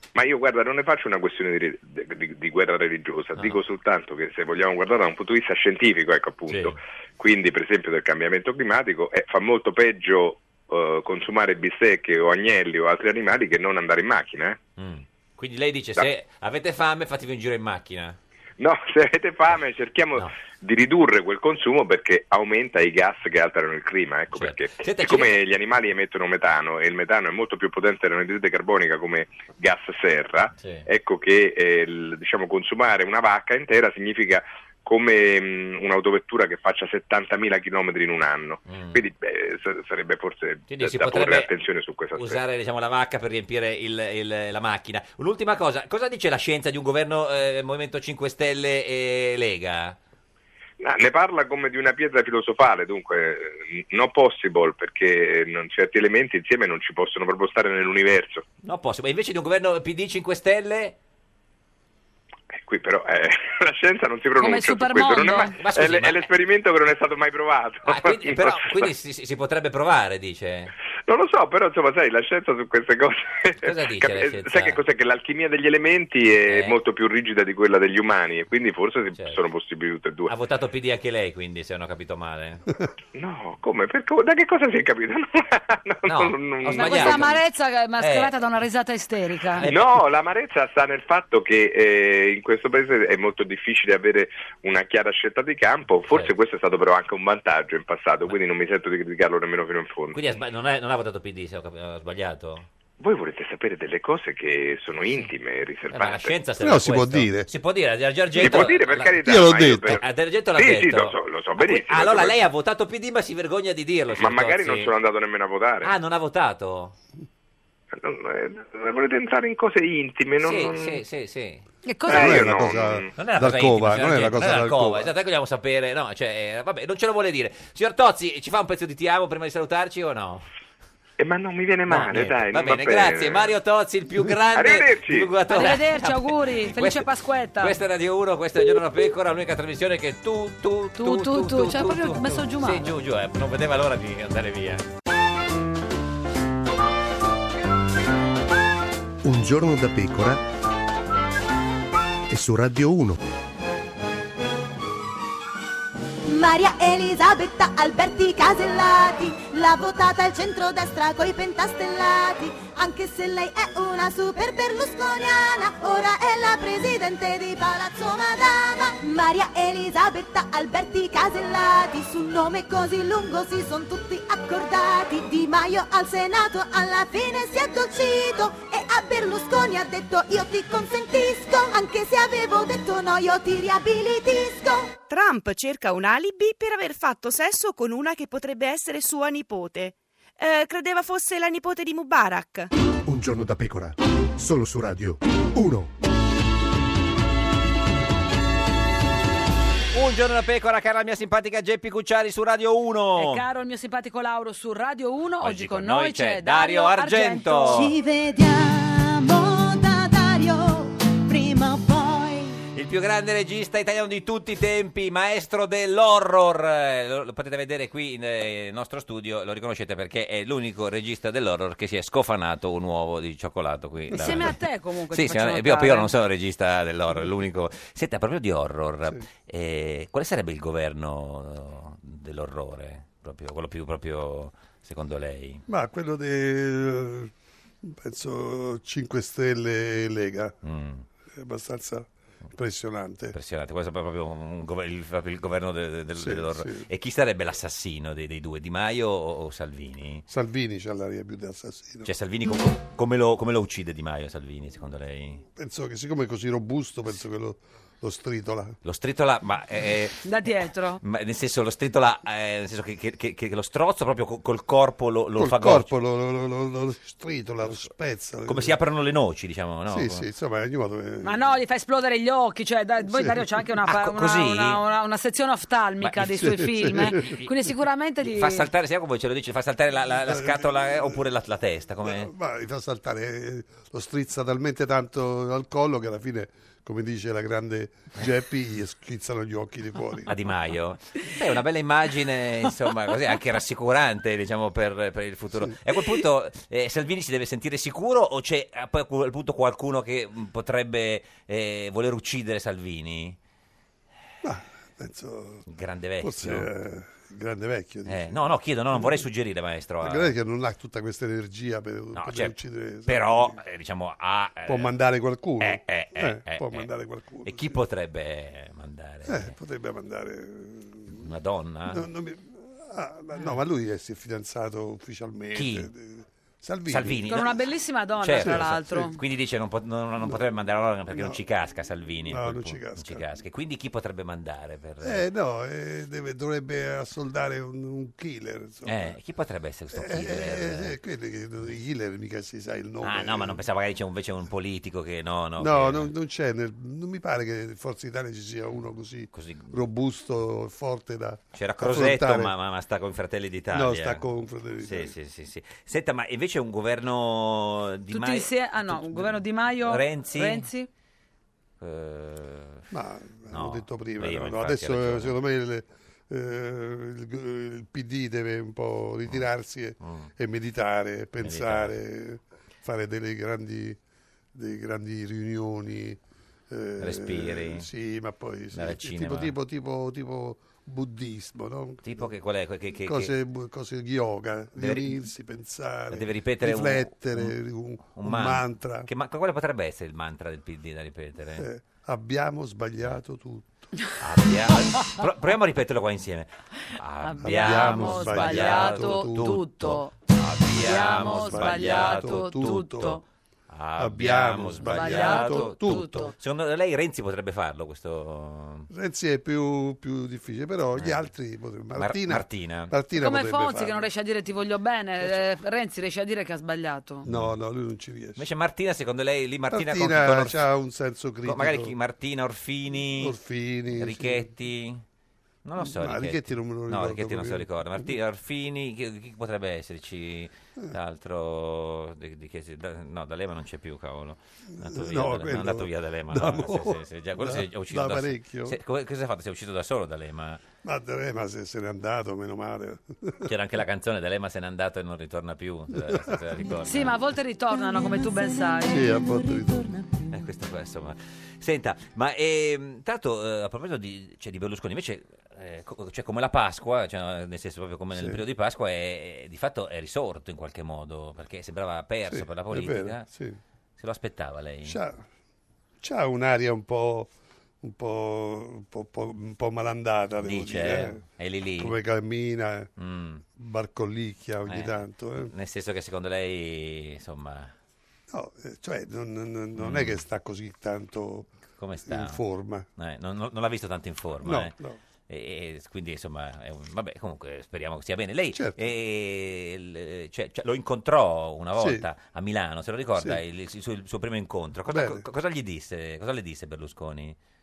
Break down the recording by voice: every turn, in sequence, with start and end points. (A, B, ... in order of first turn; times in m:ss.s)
0:00.1-0:14.6 A
0:06.5-0:06.8 B
0:14.8-0:18.2 B
0:18.6-0:42.4 A
0:24.3-0:25.4 B
0:30.6-0:30.8 B
0:38.6-0:39.0 B
0:40.7-0:41.5 B
0:42.1-0:50.0 B
0:50.8-0:58.4 A
0:58.6-1:01.0 B
1:02.5-1:08.9 A
1:04.4-1:05.5 C
1:05.5-1:06.3 B
1:07.8-1:10.7 B
1:11.1-1:20.3 A
1:13.6-1:14.8 B
1:16.5-1:16.8 B
1:20.3-1:22.6 B
1:23.1-1:27.4 A
1:26.0-1:27.4 B
1:26.7-1:29.7 C
1:28.0-1:28.3 B
1:29.6-1:30.0 B
1:29.6-1:40.2 A
1:40.1-1:42.7 B
1:43.0-1:46.4 A
1:45.9-1:54.9 B
1:46.6-1:47.5 D
1:48.3-1:50.0 A
1:49.2-1:50.0 D
1:50.5-1:52.4 A
1:54.1-1:55.9 A
1:55.8-1:56.9 B
1:57.9-2:01.0 A
2:00.4-2:01.6 B
2:01.8-2:02.5 C
2:02.1-2:03.1 A
2:02.1-2:05.1 D
2:03.1-2:10.4 B
2:11.2-2:13.5 A
2:11.9-2:17.1 B
2:14.5-2:15.3 A
2:15.5-2:17.8 C
2:17.6-2:24.8 B
2:21.0-2:22.9 C
2:29.2-2:30.4 E
2:32.3-2:33.2 E
2:36.2-3:05.0 F
3:05.1-3:12.7 G
3:13.0-3:15.9 E
3:19.9-3:23.4 B
3:23.2-3:27.9 C
3:25.4-3:28.0 B
3:27.7-3:32.6 F
3:32.7-3:55.6 B
3:44.1-3:46.1 C
3:44.1-3:44.5 D
3:55.7-3:57.3 D
3:57.8-4:00.6 D
4:00.6-4:01.0 B
4:01.3-4:03.3 D
4:03.3-4:10.2 B
4:06.2-4:06.9 D
4:10.3-4:12.1 D
4:12.0-4:15.4 B
4:15.4-4:18.8 D
4:18.8-4:20.3 B
4:20.2-4:21.0 C
4:21.0-4:25.9 B
4:25.4-4:28.8 D
4:28.4-4:30.2 B
4:29.9-4:31.4 D
4:31.2-4:38.7 C
4:33.1-4:33.4 D
4:33.8-4:34.8 B
4:36.0-4:37.5 B
4:36.4-4:37.2 D
4:38.2-4:42.3 B
4:40.2-4:41.2 D
4:42.0-4:50.3 D
4:50.2-5:03.4 B
4:55.5-4:56.1 D
5:04.4-5:05.6 D
5:05.7-5:06.7 B
5:06.2-5:09.2 D
5:08.1-5:10.3 B
5:10.0-5:13.6 D
5:12.1-5:12.5 B
5:13.1-5:14.9 B
5:14.7-5:17.8 D
5:15.6-5:16.9 B
5:17.4-5:19.5 B
5:19.2-5:21.2 D
5:21.1-5:22.0 B
5:21.9-5:27.4 D
5:25.5-5:25.9 B
5:26.9-5:27.6 B
5:27.3-5:29.2 C
5:28.2-5:35.2 B
5:28.4-5:29.1 D
5:30.2-5:30.5 D
5:31.1-5:31.4 D
5:32.2-5:33.2 D
5:35.0-5:39.2 D
5:38.8-5:41.0 B
5:39.9-5:43.6 D
5:43.0-5:46.1 B
5:45.6-5:52.5 D
5:49.3-5:49.8 B
5:51.5-5:54.2 B
5:53.7-5:55.1 D
5:54.8-6:00.6 B
5:58.1-6:00.9 C
6:01.8-6:02.8 B
6:02.9-6:14.0 D
6:03.5-6:05.3 B
6:10.0-6:10.3 B
6:11.4-6:11.9 B
6:14.5-6:22.3 D
6:17.0-6:17.9 B
6:18.7-6:19.5 B
6:22.0-6:23.3 B
6:23.0-6:29.1 D
6:24.8-6:25.2 B
6:26.1-6:27.5 B
6:28.1-6:31.6 B
6:31.6-6:34.0 D
6:34.2-6:39.5 B
6:37.2-6:40.1 C
6:37.4-6:40.1 D
6:40.3-6:48.9 B
6:40.8-6:43.2 C
6:40.8-6:43.2 D
6:44.0-6:46.3 D
6:44.8-6:46.3 C
6:48.9-6:54.0 D
6:51.0-6:51.3 B
6:51.9-6:52.9 B
6:53.2-6:57.3 C
6:57.2-6:58.4 D
6:57.3-6:57.5 B
6:58.4-7:00.7 B
6:59.7-7:01.9 D
7:01.4-7:03.4 B
7:03.2-7:04.5 D
7:03.9-7:05.0 B
7:05.6-7:20.6 B
7:05.8-7:08.1 D
7:14.7-7:18.8 D
7:20.8-7:23.5 D
7:23.4-7:27.1 B
7:25.9-7:26.4 D
7:26.8-7:29.2 C
7:28.9-7:30.1 D
7:30.3-7:43.3 B
7:38.1-7:38.4 D
7:42.3-7:43.6 D
7:44.0-7:45.0 B
7:44.8-7:45.2 D
7:46.0-7:51.2 D
7:50.4-7:52.0 B
7:51.8-7:52.9 D
7:53.0-7:53.4 B
7:53.5-7:55.5 D
7:54.6-7:57.7 B
7:58.3-8:01.5 D
7:59.8-8:00.2 B
8:01.8-8:02.4 B
8:02.0-8:02.9 D
8:03.0-8:04.7 B
8:04.4-8:05.0 D
8:05.3-8:17.4 B
8:08.5-8:08.8 D
8:11.7-8:12.0 D
8:14.9-8:15.2 D